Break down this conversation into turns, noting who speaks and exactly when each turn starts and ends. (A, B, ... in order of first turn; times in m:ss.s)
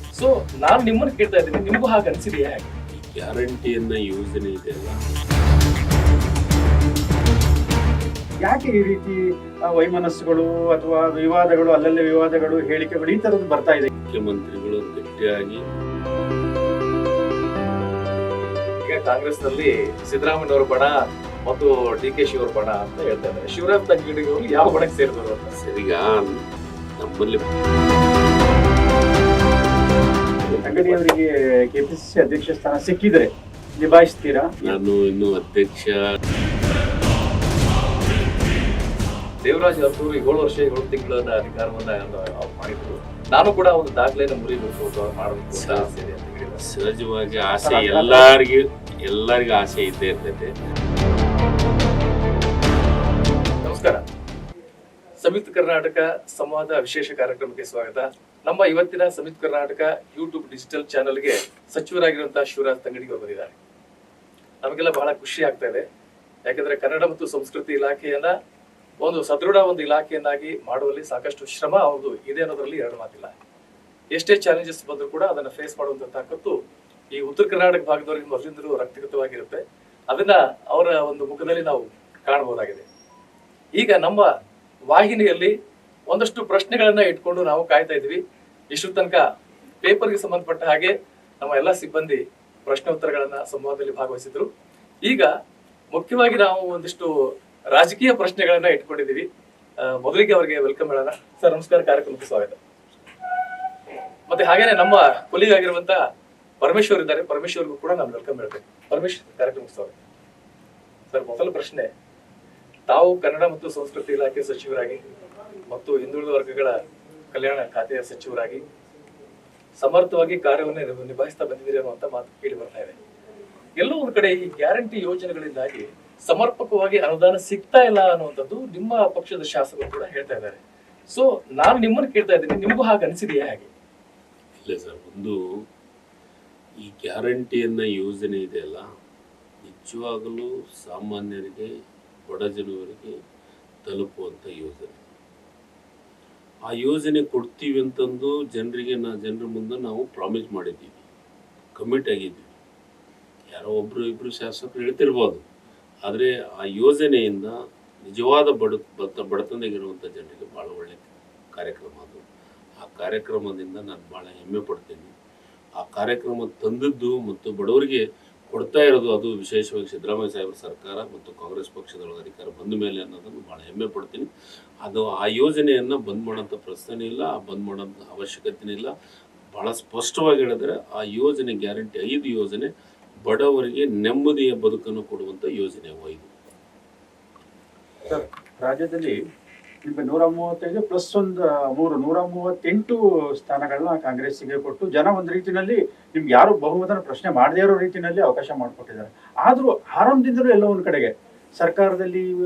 0:00.2-0:02.7 A
0:02.9-0:05.0 B
0:08.4-0:09.2 C
0:09.7-0:13.9 C
0:14.0-0:15.6 B
0:18.8-0:20.9 A
0:21.5-0:25.6 A
0:25.6-0:26.3 B
0:27.0-0:27.6 B
0:30.4-0:31.0 B
0:30.6-0:34.8 C
0:34.6-0:36.0 B
0:39.4-0:46.7 A
0:45.5-0:45.9 B
0:46.6-0:50.5 B
0:47.6-0:48.3 C
0:53.6-0:54.0 A
0:55.2-1:03.6 A
1:04.6-1:05.8 A
1:06.5-1:08.3 A
1:09.0-1:13.3 A
1:14.1-1:16.6 A
1:17.1-1:22.9 A
1:23.8-1:24.3 A
1:24.9-1:25.5 A
1:26.1-1:28.2 A
1:28.7-1:29.2 A
1:29.8-1:34.5 A
1:35.0-1:35.3 A
1:35.9-1:37.2 A
1:37.7-1:39.3 A
1:39.8-1:42.6 A
1:44.3-1:46.0 A
1:46.6-1:50.0 A
1:51.1-1:51.9 A
1:52.9-1:55.0 A
1:55.7-1:56.8 A
1:57.3-1:58.6 A
1:59.8-2:03.0 A
2:03.8-2:13.7 A
2:14.6-2:15.4 B
2:16.8-2:18.8 B
2:19.6-2:21.7 B
2:22.2-2:23.2 B
2:23.8-2:25.0 B
2:26.7-2:31.0 B
2:31.8-2:32.5 B
2:33.5-2:35.4 B
2:36.0-2:42.3 B
2:42.8-2:45.1 B
2:45.8-2:54.3 B
2:54.8-2:58.9 B
2:59.5-3:02.7 B
3:03.2-3:06.3 B
3:08.1-3:09.2 C
3:09.9-3:22.3 C